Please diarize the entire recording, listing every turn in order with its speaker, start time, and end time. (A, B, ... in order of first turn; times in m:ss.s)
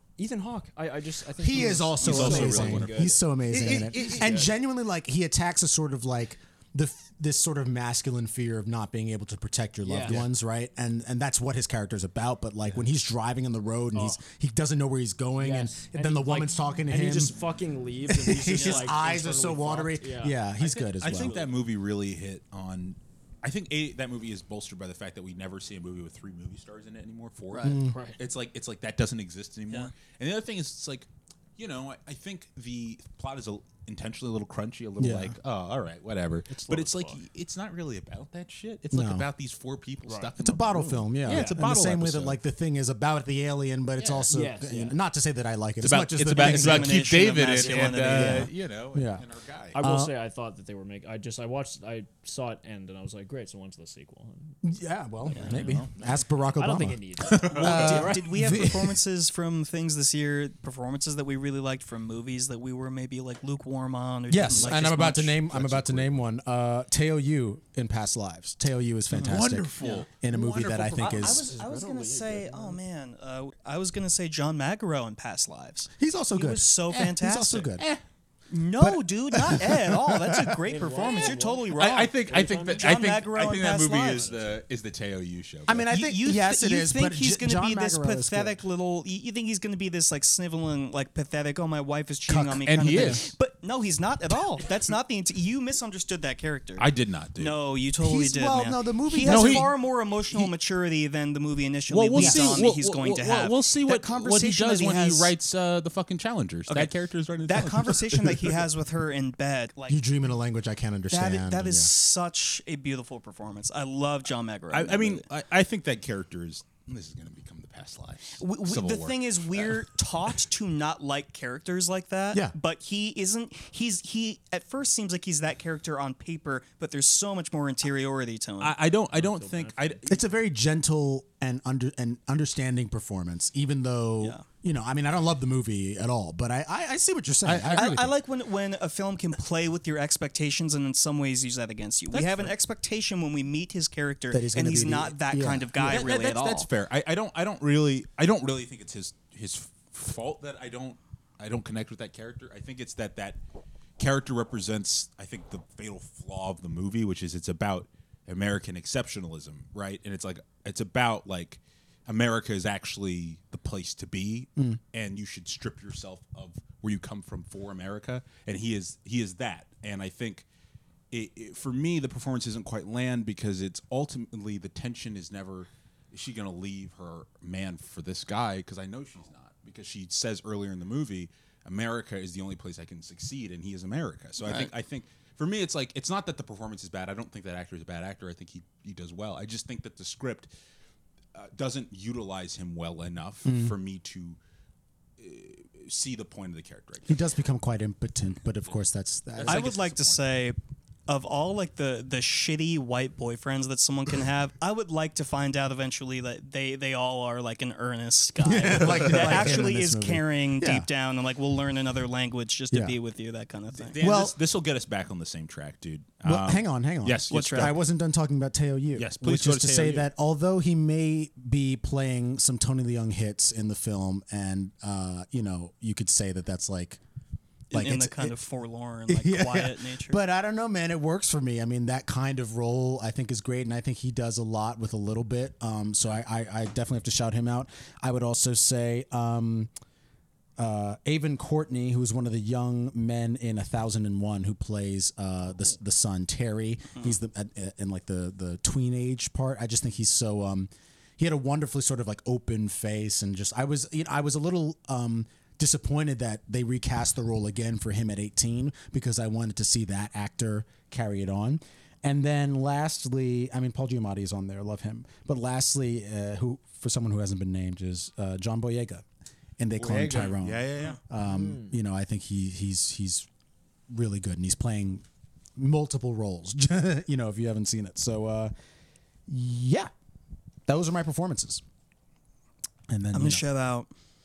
0:00.2-0:04.5 A
0:01.4-0:17.3 B
0:02.0-0:04.4 C
0:09.8-0:10.2 A
0:13.9-0:14.2 A
0:15.4-0:20.5 A
0:18.1-0:21.4 B
0:18.5-0:18.9 D
0:20.6-0:42.4 C
0:21.0-0:21.6 A
0:27.5-0:27.8 D
0:27.6-0:28.0 B
0:27.9-0:28.2 A
0:35.0-0:35.4 B
0:36.5-0:37.2 A
0:38.9-0:39.3 B
0:40.0-0:40.3 A
0:40.4-0:47.1 B
0:41.3-0:41.6 A
0:44.1-0:45.0 A
0:45.8-0:49.8 C
0:46.3-0:48.5 D
0:47.6-0:49.2 B
0:49.7-0:54.6 A
0:49.8-0:50.2 B
0:54.6-0:59.0 B
0:55.3-0:58.2 A
0:55.4-0:55.9 C
0:57.2-0:58.2 C
0:57.6-1:05.4 D
1:04.3-1:11.5 B
1:04.4-1:06.1 C
1:09.1-1:11.2 C
1:11.0-1:17.7 D
1:11.2-1:12.8 A
1:16.0-1:17.9 B
1:17.8-1:18.0 C
1:18.5-1:22.2 D
1:18.8-1:20.6 B
1:20.6-1:23.1 A
1:21.0-1:26.0 C
1:22.8-1:24.3 D
1:24.1-1:24.6 A
1:25.7-1:28.6 B
1:25.9-1:45.3 D
1:32.3-1:33.3 B
1:32.6-1:33.3 C
1:36.8-1:37.6 C
1:38.0-1:39.7 B
1:39.2-1:39.7 C
1:41.9-1:48.6 C
1:42.2-1:42.6 B
1:46.7-1:46.9 D
1:47.4-1:50.0 D
1:49.9-1:51.9 B
1:51.1-1:55.2 D
1:54.7-1:59.9 C
1:58.4-2:08.8 D
2:08.6-2:10.2 C
2:09.1-2:10.0 A
2:10.1-2:18.1 B
2:17.4-2:18.2 C
2:17.7-2:26.7 D
2:22.1-2:22.5 C
2:24.3-2:25.8 B
2:25.8-2:33.4 C
2:34.0-2:50.5 C
2:51.1-3:10.5 C
3:04.4-3:04.7 D
3:11.3-3:14.4 C
3:13.4-3:13.8 B
3:15.2-3:17.2 C
3:17.1-3:19.7 B
3:19.3-3:20.3 C
3:19.5-3:34.0 D
3:28.4-3:30.9 B
3:28.5-3:29.7 C
3:32.7-3:33.0 B
3:33.7-3:37.8 C
3:34.0-3:34.4 B
3:36.2-3:47.0 B
3:37.3-3:37.8 D
3:39.0-3:40.1 C
3:47.7-3:50.2 D
3:47.7-3:48.4 B
3:49.1-3:59.7 B
4:00.6-4:29.0 B
4:29.6-4:33.3 B
4:29.8-4:31.0 C
4:30.1-4:31.0 D
4:31.2-4:31.8 A
4:33.9-4:35.0 B
4:35.6-4:38.5 B
4:39.3-4:39.9 B
4:40.7-4:41.6 B
4:42.9-4:43.4 B
4:43.1-4:43.9 D